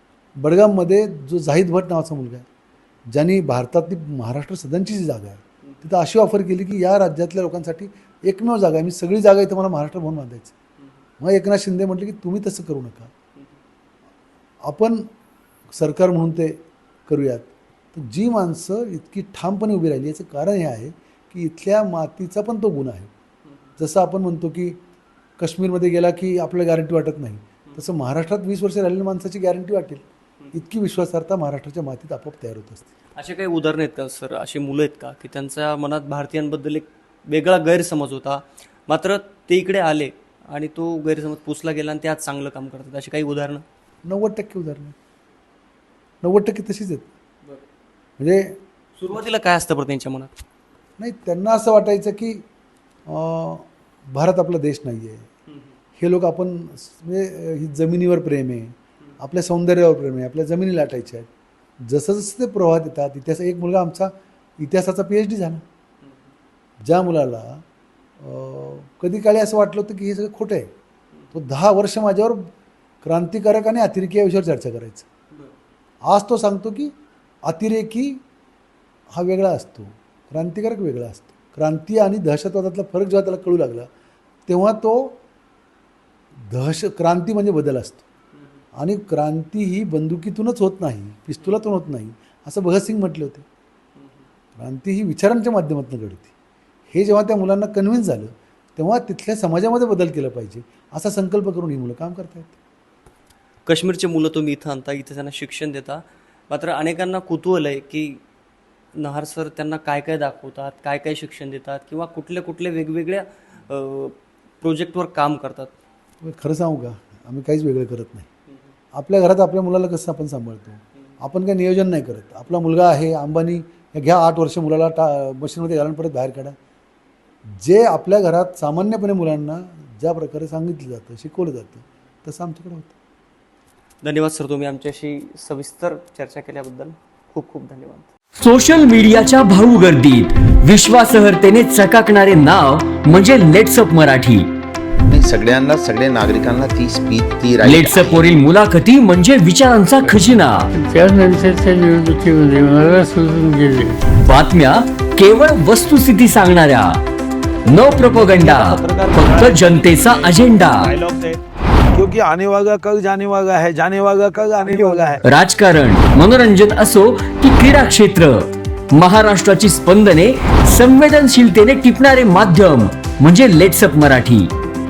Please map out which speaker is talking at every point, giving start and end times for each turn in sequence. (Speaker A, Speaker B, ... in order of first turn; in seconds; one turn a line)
Speaker A: 0.4-2.5
Speaker A: 3.1-10.5
Speaker A: 11.2-13.1
Speaker A: 14.6-15.1
Speaker A: 15.7-23.1
Speaker A: 23.8-24.8
Speaker A: 25.4-32.9
Speaker B: 33.2-43.6
Speaker A: 44.0-45.0
Speaker A: 46.2-47.1
Speaker A: 48.2-48.6
Speaker B: 49.0-50.3
Speaker A: 51.0-52.5
Speaker A: 53.1-55.3
Speaker A: 56.0-61.3
Speaker A: 61.9-65.6
Speaker A: 66.8-67.6
Speaker A: 68.2-70.7
Speaker A: 71.3-72.5
Speaker A: 73.0-75.1
Speaker A: 76.1-76.9
Speaker A: 77.5-78.2
Speaker A: 79.1-83.9
Speaker A: 84.5-85.2
Speaker A: 86.5-88.0
Speaker A: 88.8-93.5
Speaker A: 94.6-96.3
Speaker A: 96.9-102.6
Speaker B: 103.7-108.2
Speaker B: 109.0-115.7
Speaker A: 116.2-118.3
Speaker A: 118.9-126.6
Speaker A: 127.5-132.9
Speaker B: 134.0-138.1
Speaker C: 138.4-144.5
Speaker D: 145.0-148.2
Speaker C: 147.6-150.7
Speaker E: 150.7-154.0
Speaker C: 154.2-157.0
Speaker C: 157.7-160.9
Speaker F: 158.0-161.4
Speaker F: 161.9-165.2
Speaker C: 165.2-174.5